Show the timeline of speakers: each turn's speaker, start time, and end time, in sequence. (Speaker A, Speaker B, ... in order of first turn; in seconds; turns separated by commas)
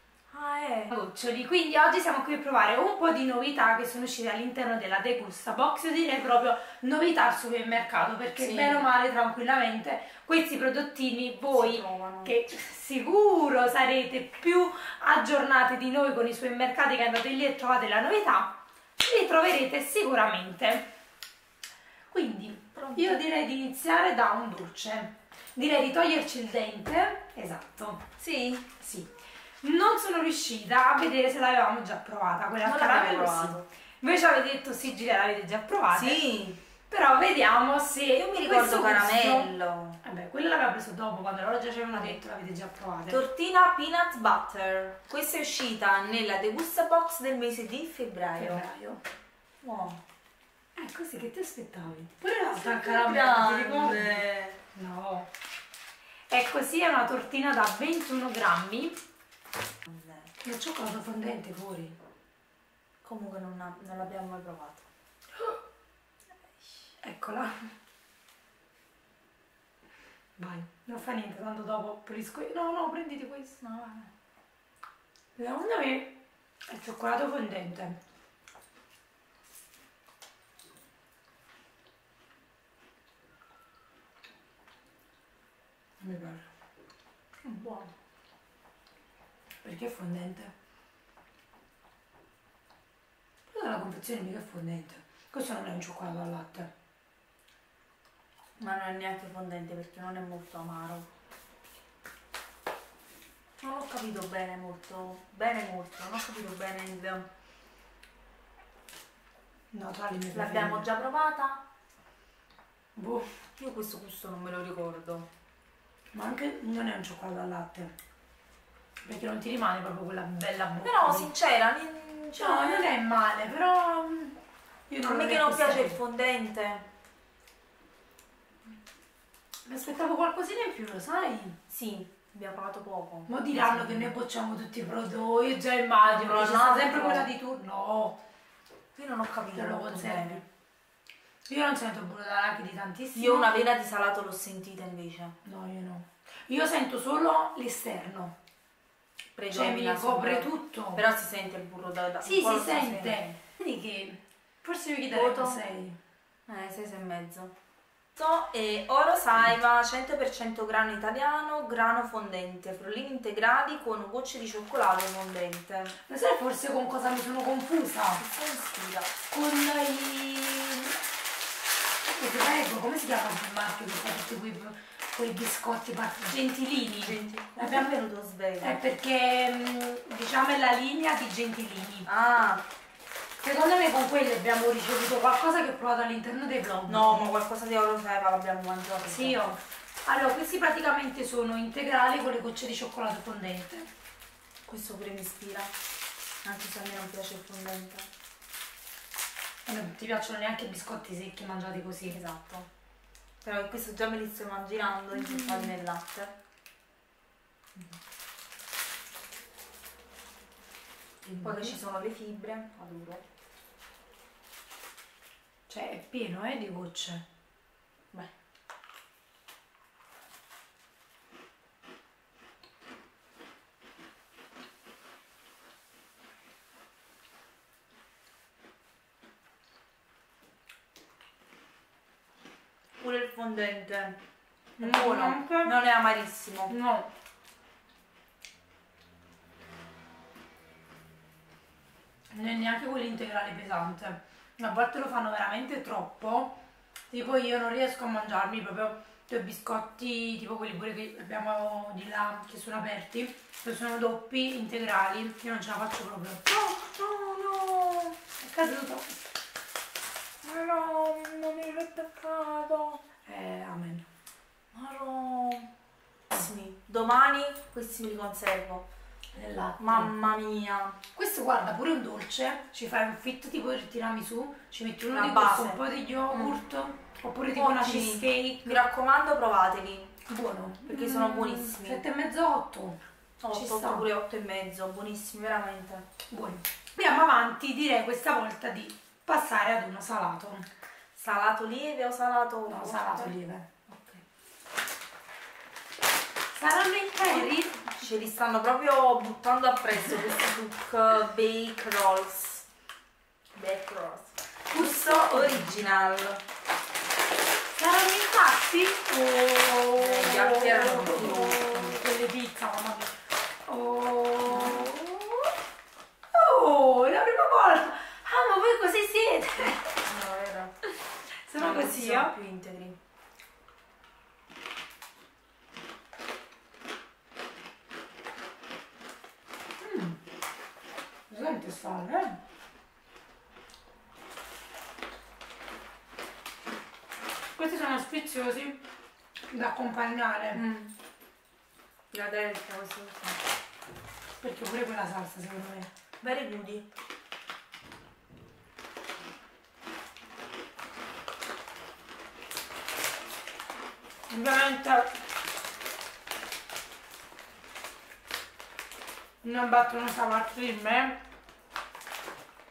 Speaker A: 0.3-0.9, Speaker B: 0.9-20.9, Speaker A: 8.3-8.9, Speaker A: 11.5-12.3, Speaker B: 22.1-28.0, Speaker A: 22.7-23.2, Speaker A: 28.2-28.7, Speaker B: 28.8-36.2, Speaker A: 32.6-33.7, Speaker A: 35.9-36.6, Speaker B: 36.9-39.5, Speaker A: 38.1-40.0, Speaker B: 40.0-43.2, Speaker A: 43.1-48.6, Speaker B: 48.4-49.0, Speaker A: 49.6-50.0, Speaker B: 50.8-55.3, Speaker A: 52.5-54.6, Speaker B: 56.3-59.0, Speaker A: 59.9-60.3, Speaker B: 60.4-62.0, Speaker A: 63.0-64.8, Speaker B: 67.0-67.5, Speaker B: 70.4-73.6, Speaker A: 73.6-74.1, Speaker B: 75.3-78.0, Speaker B: 86.0-86.5, Speaker A: 87.4-87.9, Speaker B: 89.6-90.5, Speaker B: 93.5-96.7, Speaker A: 98.6-101.1, Speaker A: 103.6-107.3, Speaker B: 109.7-110.8, Speaker A: 110.3-111.6, Speaker B: 113.0-113.3, Speaker A: 113.6-115.3, Speaker B: 116.1-117.9, Speaker B: 119.0-121.3, Speaker A: 120.8-122.9, Speaker B: 122.4-124.4, Speaker B: 124.9-126.0, Speaker A: 125.0-126.8, Speaker B: 129.7-131.6, Speaker A: 131.7-134.1, Speaker B: 133.3-138.2, Speaker A: 136.0-137.3, Speaker A: 138.9-140.4, Speaker B: 139.5-140.4, Speaker B: 141.5-143.7, Speaker A: 143.1-145.3, Speaker B: 145.4-148.3, Speaker A: 149.3-153.4, Speaker B: 149.5-151.0, Speaker B: 152.2-156.0, Speaker A: 155.1-155.6, Speaker A: 156.5-157.5, Speaker A: 158.2-165.9, Speaker B: 166.1-168.2, Speaker A: 168.2-169.2, Speaker B: 169.3-170.9, Speaker B: 172.1-177.9, Speaker A: 177.0-178.8, Speaker B: 178.6-182.1, Speaker A: 182.1-182.6, Speaker B: 183.4-187.2, Speaker A: 186.9-189.4, Speaker B: 189.0-193.9, Speaker A: 194.7-195.7, Speaker A: 196.4-198.1, Speaker B: 199.7-202.2, Speaker A: 202.1-202.7, Speaker A: 203.4-206.3, Speaker B: 205.1-205.7, Speaker B: 211.2-211.8, Speaker A: 211.4-213.2, Speaker B: 215.7-217.2, Speaker A: 233.0-234.2, Speaker B: 234.8-235.8, Speaker A: 234.8-236.7, Speaker B: 236.7-237.1, Speaker B: 242.3-246.6, Speaker B: 247.1-256.6, Speaker A: 256.5-258.1, Speaker B: 258.4-259.1, Speaker A: 260.4-263.0, Speaker B: 263.2-264.1, Speaker A: 264.7-265.7, Speaker A: 266.3-268.9, Speaker B: 269.3-270.2, Speaker A: 269.8-271.0, Speaker B: 271.1-278.8, Speaker A: 275.1-276.6, Speaker A: 277.5-280.1, Speaker B: 280.3-284.1, Speaker A: 280.9-282.0, Speaker A: 283.4-286.1, Speaker B: 286.3-290.6, Speaker A: 291.1-293.4, Speaker B: 292.7-293.6, Speaker A: 293.9-294.2, Speaker B: 296.5-297.9, Speaker A: 297.2-302.6, Speaker A: 303.5-306.4, Speaker B: 304.7-306.1, Speaker B: 307.8-313.1, Speaker A: 310.0-312.0, Speaker B: 313.6-315.5, Speaker A: 314.5-315.0, Speaker B: 316.3-320.0, Speaker A: 320.0-320.8, Speaker B: 321.4-322.3, Speaker A: 321.6-323.0, Speaker B: 329.8-330.2, Speaker B: 331.3-332.4, Speaker B: 337.6-338.8, Speaker B: 339.5-340.6, Speaker A: 340.5-340.9, Speaker A: 342.1-343.4, Speaker B: 344.4-345.9, Speaker A: 346.2-346.9, Speaker B: 354.3-355.1, Speaker B: 359.4-361.2